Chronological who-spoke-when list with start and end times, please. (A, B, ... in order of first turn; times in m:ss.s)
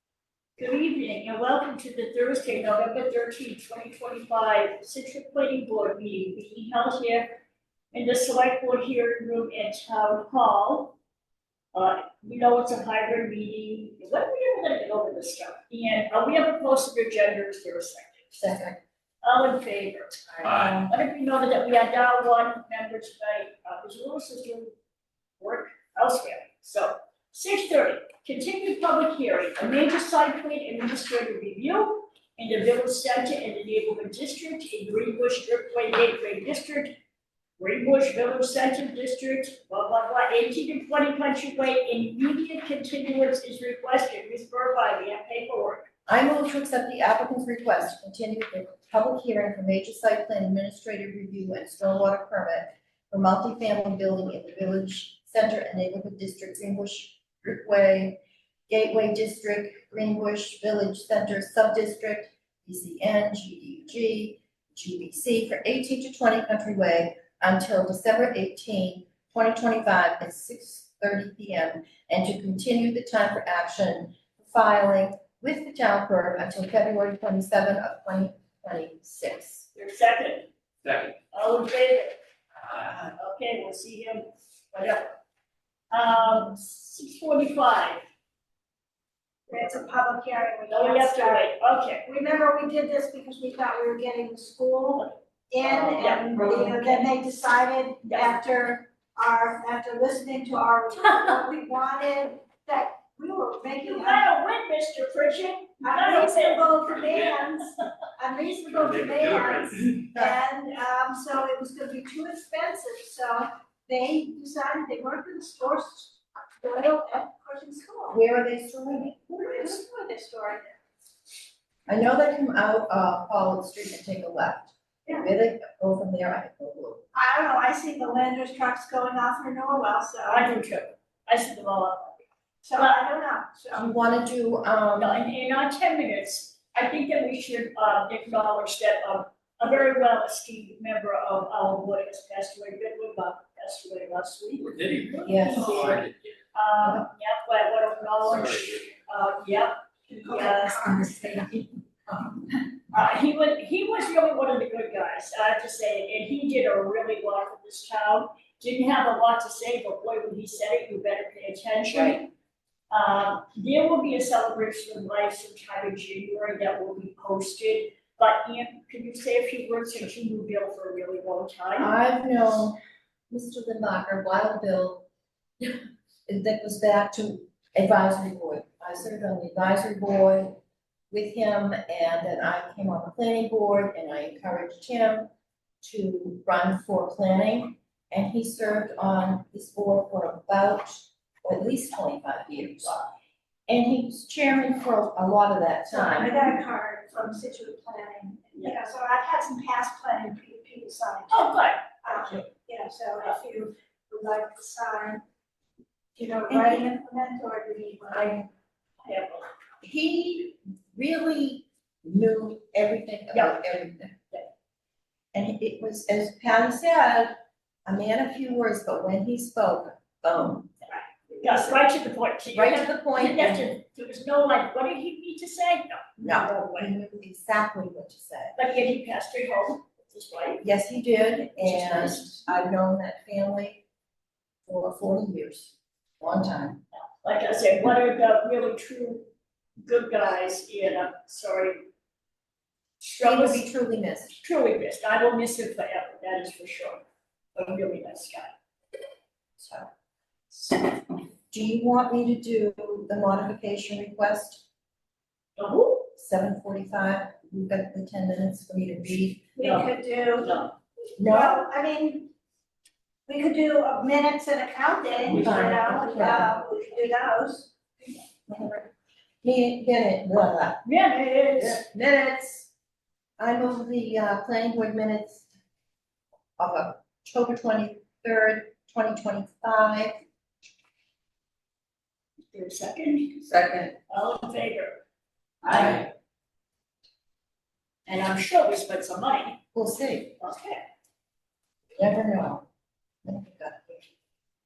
0:00.6-0:07.4 A
0:07.9-0:11.0 A
0:11.7-0:18.4 A
0:18.4-0:18.8 B
0:19.2-0:20.2 A
0:20.3-0:20.9 B
0:20.4-0:20.9 C
0:20.9-0:24.7 A
0:25.4-0:36.9 A
0:37.6-0:45.9 A
0:46.1-1:19.7 B
1:19.7-1:20.5 A
1:20.8-1:21.1 C
1:21.3-1:22.2 A
1:23.0-1:25.1 A
1:25.9-1:28.0 A
1:29.5-1:31.5 D
1:30.7-1:32.0 A
1:32.0-1:44.3 D
1:36.0-1:36.2 A
1:38.0-1:38.4 A
1:43.8-1:47.4 A
1:45.8-1:58.2 D
1:48.6-1:50.0 C
1:58.1-1:59.8 B
1:59.4-2:00.8 D
2:01.9-2:07.0 B
2:07.1-2:10.5 D
2:10.3-2:12.2 A
2:12.6-2:13.9 D
2:13.7-2:15.2 B
2:15.0-2:31.0 A
2:24.6-2:26.3 C
2:25.2-2:26.0 B
2:28.2-2:28.8 C
2:30.1-2:31.5 D
2:32.9-2:42.3 A
2:41.9-2:42.2 B
2:42.9-2:51.9 A
2:51.8-2:52.8 B
2:53.3-2:55.1 B
2:55.6-3:00.6 B
3:01.1-3:05.3 B
3:05.8-3:13.0 B
3:13.7-3:16.3 B
3:15.9-3:25.2 D
3:18.5-3:18.8 A
3:21.3-3:22.4 A
3:26.2-3:28.4 D
3:26.5-3:26.9 B
3:28.1-3:28.4 B
3:29.0-3:29.5 A
3:29.8-3:34.2 B
3:33.3-3:33.6 A
3:35.3-3:37.3 B
3:37.8-3:40.7 B
3:40.9-3:46.9 A
3:42.5-3:43.7 B
3:46.2-3:48.6 B
3:48.6-3:50.6 A
3:50.6-3:53.8 B
3:51.6-3:52.4 A
3:54.7-3:56.8 B
3:57.2-3:59.2 A
3:59.8-4:01.8 A
4:03.0-4:03.7 A
4:03.2-4:04.3 B
4:04.3-4:07.0 A
4:07.6-4:08.5 A
4:09.6-4:09.9 B
4:10.5-4:11.0 B
4:11.5-4:14.6 B
4:15.6-4:16.1 A
4:16.2-4:19.5 B
4:19.6-4:20.5 D
4:19.6-4:20.8 A
4:21.2-4:21.6 B
4:21.2-4:22.3 D
4:23.3-4:27.7 D
4:25.2-4:26.6 B
4:25.3-4:26.0 A
4:28.5-4:28.9 B
4:29.4-4:30.8 B
4:30.8-4:31.8 A
4:31.6-4:32.7 B
4:33.4-4:35.5 B
4:36.6-4:40.1 B
4:42.5-4:43.5 A
4:43.5-4:43.9 B
4:44.1-4:45.0 A
4:45.6-4:46.1 A
4:45.7-4:46.0 B
4:48.1-4:49.6 A
4:49.8-4:50.3 B
4:50.4-4:50.8 A
4:52.0-4:52.7 B
4:53.2-4:54.0 B